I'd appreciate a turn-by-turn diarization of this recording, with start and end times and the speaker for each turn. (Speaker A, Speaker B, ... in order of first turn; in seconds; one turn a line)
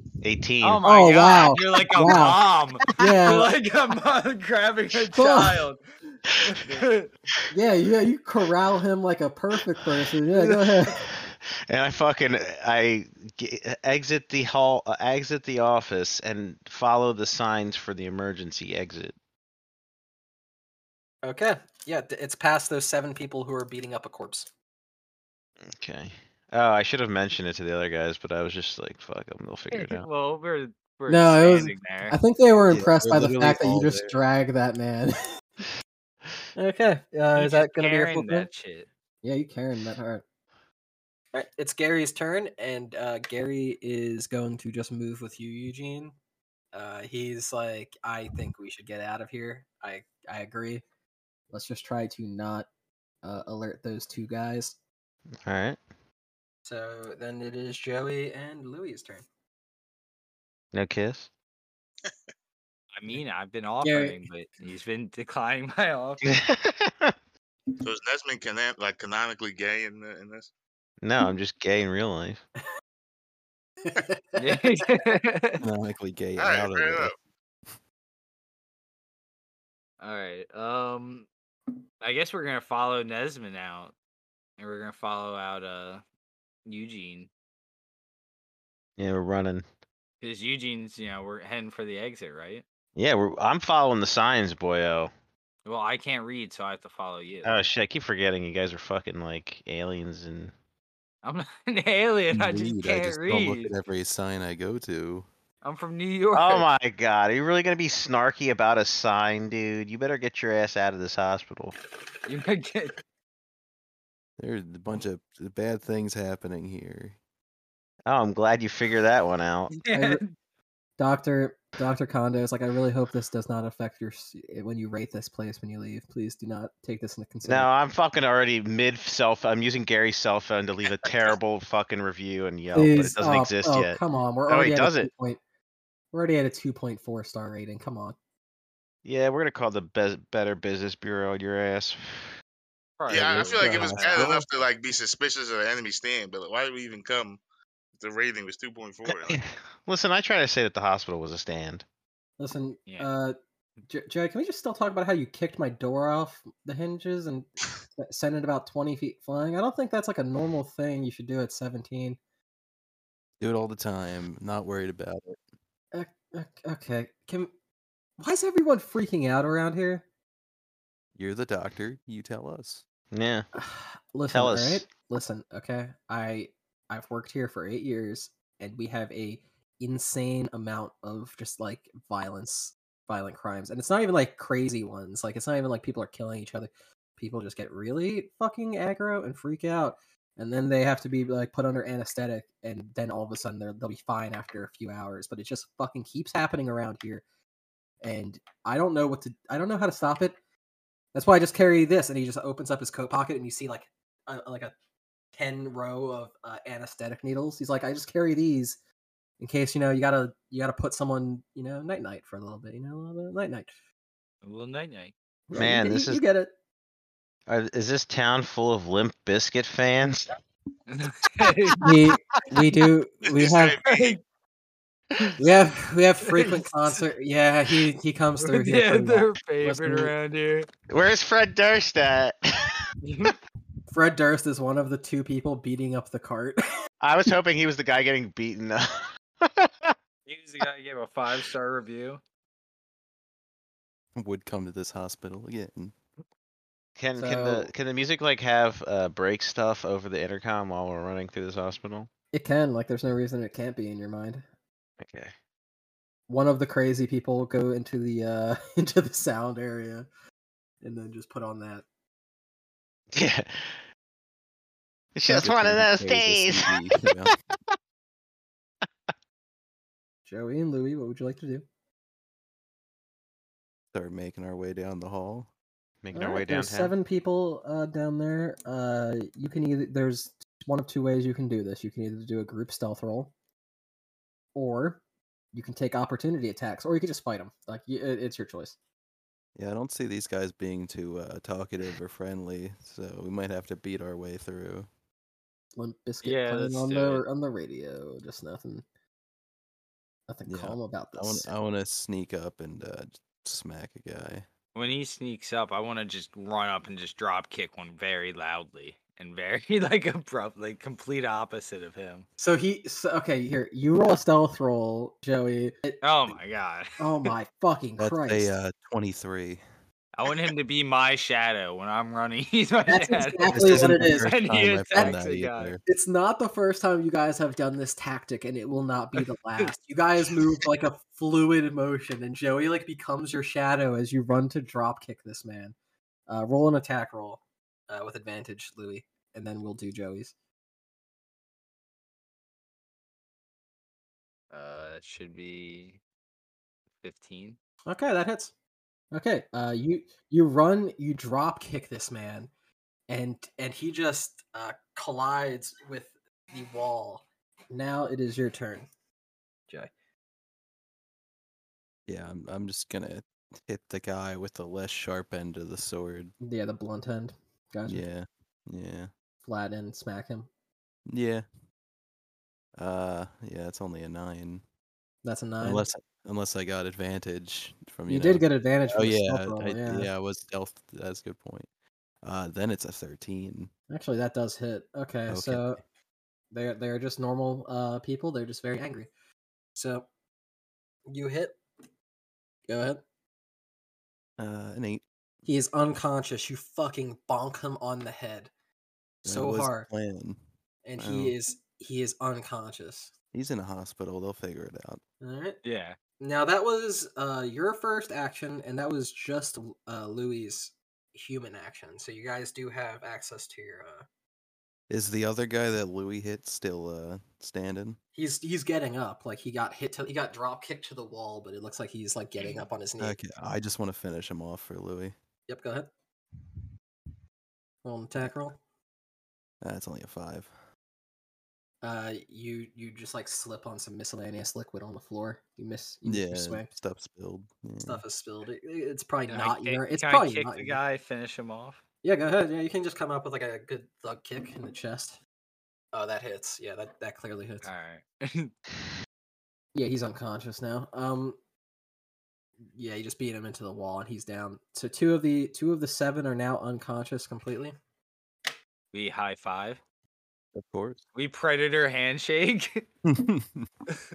Speaker A: 0.2-0.8
Speaker B: 0.6-5.8
Speaker C: 0.8-2.4
Speaker A: 2.9-3.2
Speaker C: 2.9-3.5
Speaker C: 5.1-5.6
Speaker B: 6.5-7.1
Speaker C: 7.5-11.1
Speaker B: 10.3-10.9
Speaker A: 11.3-19.1
Speaker C: 21.2-24.5
Speaker A: 25.7-30.1
Speaker B: 29.7-32.2
Speaker C: 31.1-35.7
Speaker D: 32.7-34.2
Speaker C: 36.5-38.5
Speaker B: 37.3-38.9
Speaker C: 39.2-40.2
Speaker C: 41.3-46.1
Speaker C: 46.7-50.8
Speaker C: 51.5-52.7
Speaker C: 53.2-54.8
Speaker A: 55.5-55.8
Speaker C: 56.6-59.2
Speaker A: 60.7-61.3
Speaker B: 63.0-66.2
Speaker C: 63.8-64.1
Speaker A: 66.2-67.1
Speaker E: 67.8-70.5
Speaker A: 71.0-72.4
Speaker C: 73.8-75.0
Speaker B: 74.4-75.6
Speaker D: 75.6-77.1
Speaker E: 76.4-77.1
Speaker B: 80.0-81.3
Speaker B: 82.0-83.9
Speaker B: 84.6-86.0
Speaker B: 86.7-87.3
Speaker A: 89.0-89.6
Speaker B: 90.2-92.6
Speaker A: 93.0-95.1
Speaker B: 95.6-97.6
Speaker A: 97.4-100.5
Speaker B: 101.2-103.7
Speaker D: 102.3-105.3
Speaker B: 105.6-106.7
Speaker A: 106.3-111.7
Speaker B: 112.3-113.0
Speaker D: 114.4-117.2
Speaker A: 118.0-119.7
Speaker B: 119.7-120.3
Speaker C: 119.9-120.2
Speaker C: 121.0-127.7
Speaker A: 127.4-135.1
Speaker C: 132.7-135.4
Speaker C: 136.1-138.2
Speaker A: 139.1-142.3
Speaker B: 143.0-144.3
Speaker E: 143.1-147.4
Speaker C: 143.6-144.5
Speaker E: 148.0-149.4
Speaker A: 149.2-151.8
Speaker C: 152.4-153.3
Speaker C: 153.9-162.2
Speaker D: 163.4-165.4
Speaker C: 165.9-167.5
Speaker C: 168.2-170.1
Speaker D: 171.2-172.8
Speaker A: 173.1-173.5
Speaker C: 173.6-197.2
Speaker A: 174.3-174.9
Speaker C: 198.0-200.4
Speaker C: 201.1-204.7
Speaker C: 205.4-208.8
Speaker C: 209.4-213.7
Speaker B: 214.4-215.1
Speaker C: 215.5-216.5
Speaker A: 215.5-216.2
Speaker A: 217.5-220.3
Speaker B: 220.9-221.9
Speaker C: 221.8-223.8
Speaker E: 223.2-224.2
Speaker B: 223.9-224.2
Speaker C: 225.4-230.1
Speaker B: 226.2-226.6
Speaker B: 228.4-230.7
Speaker A: 230.9-232.8
Speaker B: 233.0-233.3
Speaker C: 233.9-236.6
Speaker A: 237.0-239.9
Speaker B: 240.3-242.2
Speaker D: 244.2-245.9
Speaker A: 247.0-252.1
Speaker C: 247.2-247.7
Speaker C: 252.3-254.4
Speaker A: 255.0-255.3
Speaker C: 256.3-260.1
Speaker C: 260.8-261.8
Speaker A: 263.1-263.8
Speaker A: 265.1-267.1
Speaker D: 265.3-267.3
Speaker C: 270.3-271.6
Speaker D: 273.9-275.5
Speaker A: 276.0-276.9
Speaker C: 276.1-283.3
Speaker C: 284.6-285.0
Speaker C: 285.5-288.7
Speaker D: 289.6-294.9
Speaker C: 295.8-298.8
Speaker B: 296.2-297.2
Speaker C: 300.3-301.5
Speaker D: 300.5-304.4
Speaker B: 304.7-312.2
Speaker C: 312.4-316.0
Speaker B: 316.0-317.3
Speaker C: 317.0-318.5
Speaker D: 318.0-319.6
Speaker B: 320.1-325.7
Speaker C: 322.9-324.3
Speaker D: 323.5-325.8
Speaker C: 325.8-335.7
Speaker C: 336.3-340.3
Speaker B: 344.5-346.0
Speaker B: 347.0-347.6
Speaker C: 347.9-348.5
Speaker C: 349.1-352.5
Speaker C: 353.1-358.9
Speaker D: 362.1-366.3
Speaker C: 366.4-368.0
Speaker D: 367.9-369.1
Speaker C: 369.4-370.5
Speaker D: 371.1-371.4
Speaker D: 372.8-374.6
Speaker C: 375.2-375.8
Speaker D: 375.6-381.7
Speaker C: 378.1-380.1
Speaker D: 382.2-383.7
Speaker C: 383.9-385.8
Speaker D: 385.3-385.7
Speaker C: 386.5-389.1
Speaker C: 389.7-390.1
Speaker C: 391.1-391.6
Speaker C: 392.7-393.0
Speaker D: 394.4-395.0
Speaker C: 395.4-398.5
Speaker C: 399.2-399.9
Speaker D: 399.2-400.4
Speaker C: 400.8-403.1
Speaker D: 401.0-401.3
Speaker D: 403.3-405.0
Speaker C: 405.2-405.6
Speaker B: 405.6-405.9
Speaker C: 406.2-414.1
Speaker D: 414.9-418.0
Speaker C: 418.1-423.1
Speaker D: 423.0-425.1
Speaker C: 425.5-425.9
Speaker C: 427.8-428.6
Speaker D: 429.6-430.5
Speaker C: 431.8-436.7
Speaker D: 436.1-438.0
Speaker C: 437.8-440.8
Speaker B: 439.3-441.8
Speaker C: 442.0-445.2
Speaker C: 445.9-447.7
Speaker B: 447.6-448.5
Speaker C: 449.7-451.4
Speaker C: 452.7-457.7
Speaker B: 458.9-459.8
Speaker D: 460.6-461.0
Speaker B: 461.1-462.9
Speaker D: 463.1-463.7